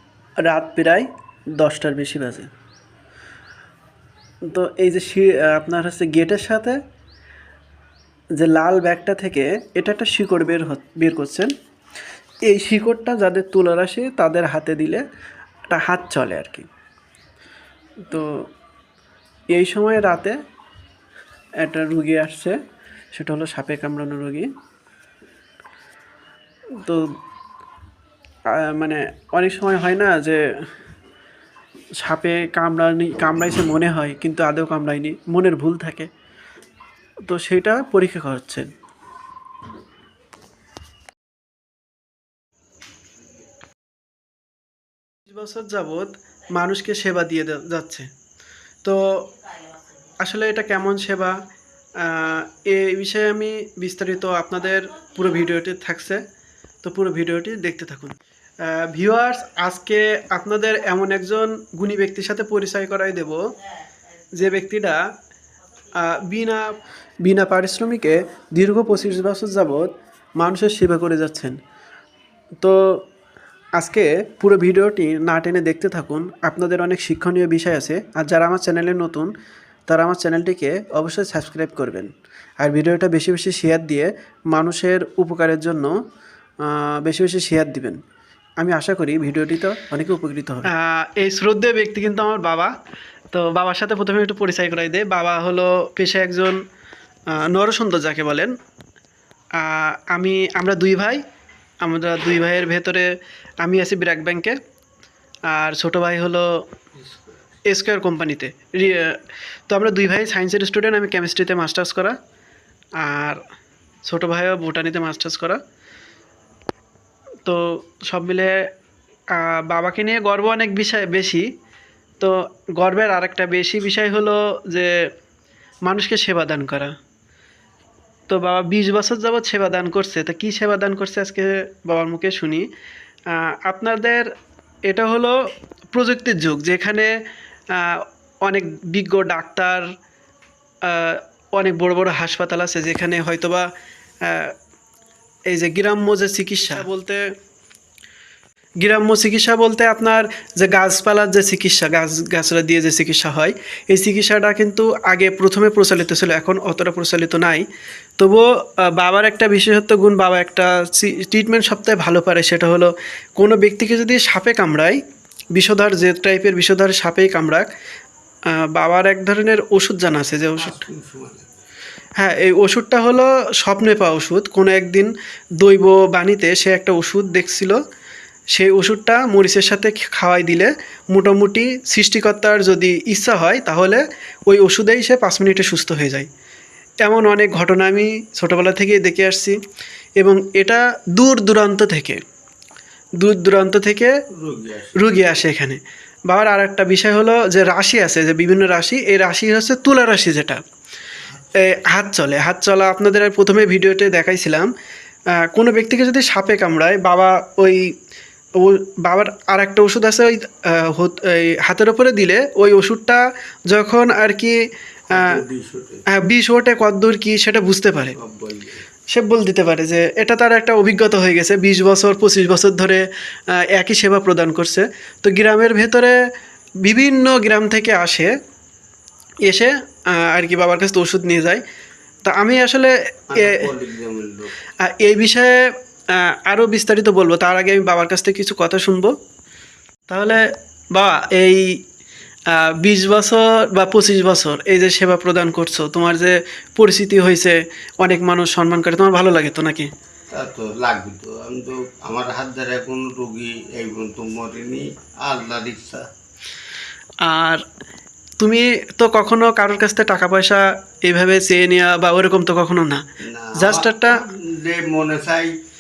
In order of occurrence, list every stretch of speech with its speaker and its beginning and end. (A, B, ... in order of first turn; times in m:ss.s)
0:00.4-0:01.1 A
0:01.6-0:02.5 A
0:04.5-0:06.8 A
0:08.4-0:11.5 A
0:12.5-0:15.0 A
0:15.7-0:16.7 A
0:18.1-0:18.5 A
0:19.5-0:20.4 A
0:21.6-0:22.6 A
0:23.1-0:24.5 A
0:26.8-0:27.1 A
0:28.6-0:30.4 A
0:32.0-0:36.1 A
0:37.3-0:38.7 A
0:45.3-0:48.1 A
0:48.8-0:49.3 A
0:50.2-0:51.4 A
0:52.0-0:56.2 A
0:56.8-1:03.5 A
1:04.4-1:05.0 A
1:06.0-1:11.6 A
1:12.6-1:13.0 A
1:13.8-1:19.3 A
1:19.9-1:26.0 A
1:26.6-1:28.0 A
1:28.6-1:32.7 A
1:33.3-1:36.6 A
1:37.3-1:38.5 A
1:39.6-1:41.2 A
1:41.8-1:43.1 A
1:43.6-1:44.6 A
1:45.5-1:46.6 A
1:47.0-1:47.4 B
1:47.7-1:52.2 A
1:53.0-1:53.4 A
1:54.0-1:55.6 A
1:57.4-1:58.7 A
1:59.3-2:01.5 A
2:02.2-2:05.1 A
2:05.9-2:07.0 A
2:08.3-2:12.7 A
2:13.3-2:14.3 A
2:14.9-2:19.9 A
2:20.8-2:23.7 A
2:24.2-2:24.5 A
2:25.5-2:27.3 A
2:28.8-2:37.7 A
2:38.2-2:45.0 A
2:45.6-2:47.7 A
2:48.5-2:50.8 A
2:50.6-2:51.6 B
2:52.2-2:57.8 A
2:58.5-3:06.3 A
3:07.0-3:09.6 A
3:10.2-3:12.2 A
3:13.2-3:14.2 A
3:14.4-3:15.1 B
3:15.0-3:20.6 A
3:21.2-3:21.9 B
3:21.6-3:24.7 A
3:25.4-3:27.9 A
3:28.6-3:34.6 A
3:35.1-3:36.0 B
3:36.1-3:38.2 A
3:38.1-3:38.9 B
3:39.1-3:46.2 A
3:46.8-3:48.3 A
3:49.4-3:51.6 A
3:52.2-3:53.7 A
3:53.3-3:54.5 B
3:54.8-3:59.2 A
4:00.1-4:01.8 A
4:02.5-4:09.9 A
4:10.3-4:16.1 B
4:17.2-4:17.6 A
4:18.4-4:23.0 A
4:23.2-4:25.5 B
4:23.6-4:24.2 A